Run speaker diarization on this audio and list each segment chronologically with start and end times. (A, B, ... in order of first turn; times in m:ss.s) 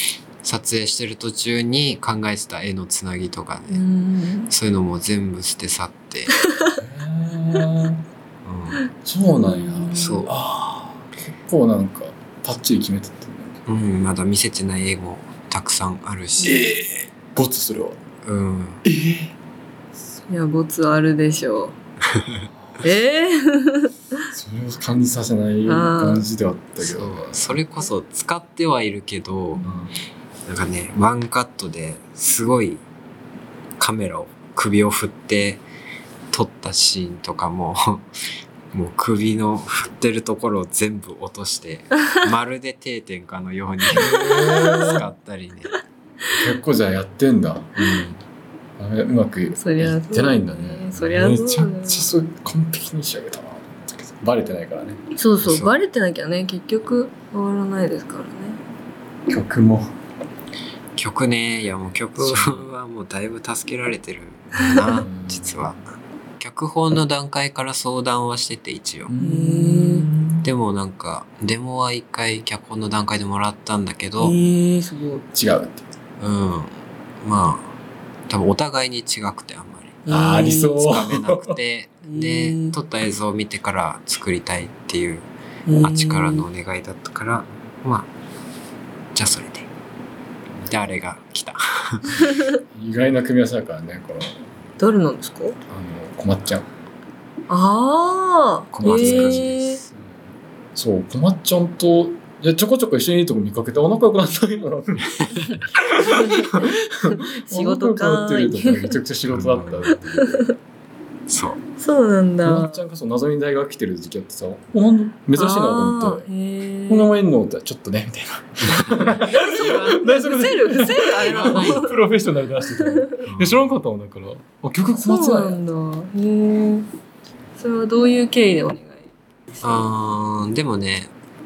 0:00.4-0:03.8 A
0:03.7-0:04.5 B
0:04.5-0:06.3 A
0:06.8-0:08.0 C
0:08.4-0:08.8 A
0:09.0-0:13.6 C
0:09.2-0:10.2 B
0:09.9-0:10.3 A
0:13.6-0:16.7 A
0:16.4-0:18.0 C
0:18.2-0:18.8 A
0:18.8-0:19.3 C
0:20.3-0:21.7 B
0:22.1-0:22.4 A
0:22.8-0:24.2 B
0:24.3-0:27.6 C
0:25.6-0:26.2 B
0:26.8-0:29.6 A
0:29.6-0:29.9 C
0:30.4-0:32.8 A
0:33.8-0:35.6 A
0:36.3-0:38.1 A
0:38.7-0:45.7 A
0:43.9-0:45.0 C
0:44.0-0:45.0 B
0:46.3-0:48.1 C
0:48.8-0:55.0 C
0:49.6-0:52.1 B
0:55.2-0:58.6 B
0:55.4-0:55.7 A
0:59.3-0:59.9 C
1:01.0-1:05.8 A
1:02.2-1:02.7 C
1:04.6-1:05.0 B
1:04.9-1:05.7 C
1:06.4-1:09.1 A
1:09.1-1:10.5 C
1:09.2-1:10.1 B
1:10.4-1:14.4 A
1:14.2-1:15.2 B
1:15.3-1:15.9 C
1:16.2-1:17.7 A
1:18.3-1:20.0 A
1:20.0-1:20.8 B
1:20.1-1:21.6 C
1:20.7-1:25.3 A
1:22.0-1:22.8 B
1:25.6-1:26.5 B
1:25.8-1:28.1 A
1:29.1-1:29.7 A
1:30.7-1:32.2 A
1:32.7-1:34.4 C
1:34.8-1:35.6 B
1:35.7-1:36.6 C
1:37.5-1:39.8 B
1:38.7-1:39.8 A
1:38.8-1:39.5 C
1:40.8-1:50.5 C
1:46.1-1:48.9 B
1:49.3-1:49.9 A
1:50.2-1:50.5 B
1:51.3-1:51.6 A
1:51.8-1:52.8 B
1:52.4-1:56.2 C
1:55.4-1:57.2 B
1:56.9-2:05.6 C
1:58.7-2:00.1 A
1:59.3-2:02.0 B
2:01.2-2:01.8 A
2:02.8-2:03.0 B
2:03.2-2:03.7 A
2:05.0-2:06.9 B
2:07.6-2:09.1 B
2:09.6-2:11.1 A